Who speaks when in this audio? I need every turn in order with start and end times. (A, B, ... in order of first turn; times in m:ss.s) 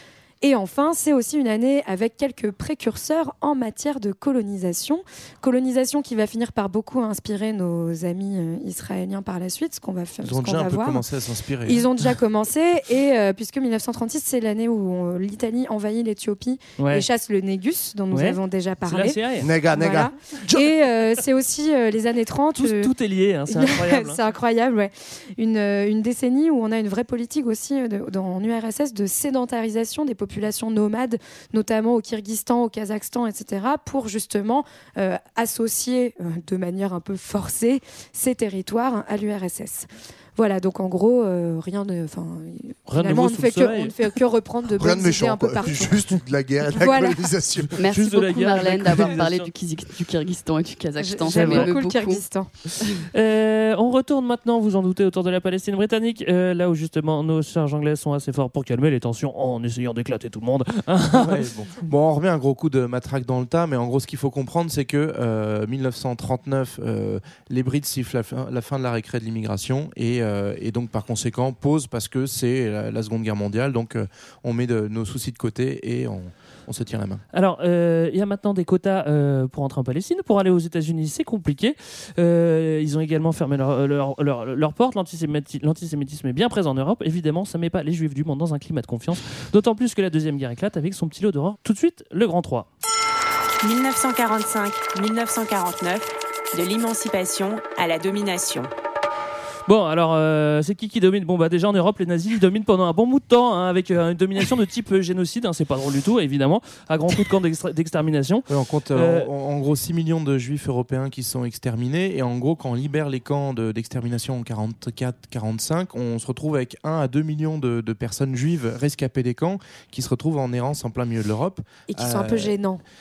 0:00.4-0:11.0 A
0:10.2-0:11.9 B
0:11.6-0:19.2 A
0:16.8-0:17.0 C
0:18.1-0:19.5 C
0:19.4-0:20.1 D
0:19.7-0:22.9 A
0:22.6-0:24.2 C
0:23.5-0:46.0 A
0:42.9-0:43.9 C
0:44.7-0:47.7 D
0:46.7-0:47.2 A
0:47.8-0:52.2 E
0:47.9-0:49.5 C
0:51.0-0:52.5 A
0:51.4-0:51.7 C
0:53.1-1:01.4 C
1:01.1-1:17.2 B
1:17.3-1:32.7 C
1:33.6-1:38.7 F
1:39.7-1:49.3 C
1:48.5-2:02.5 B
2:01.9-2:02.8 A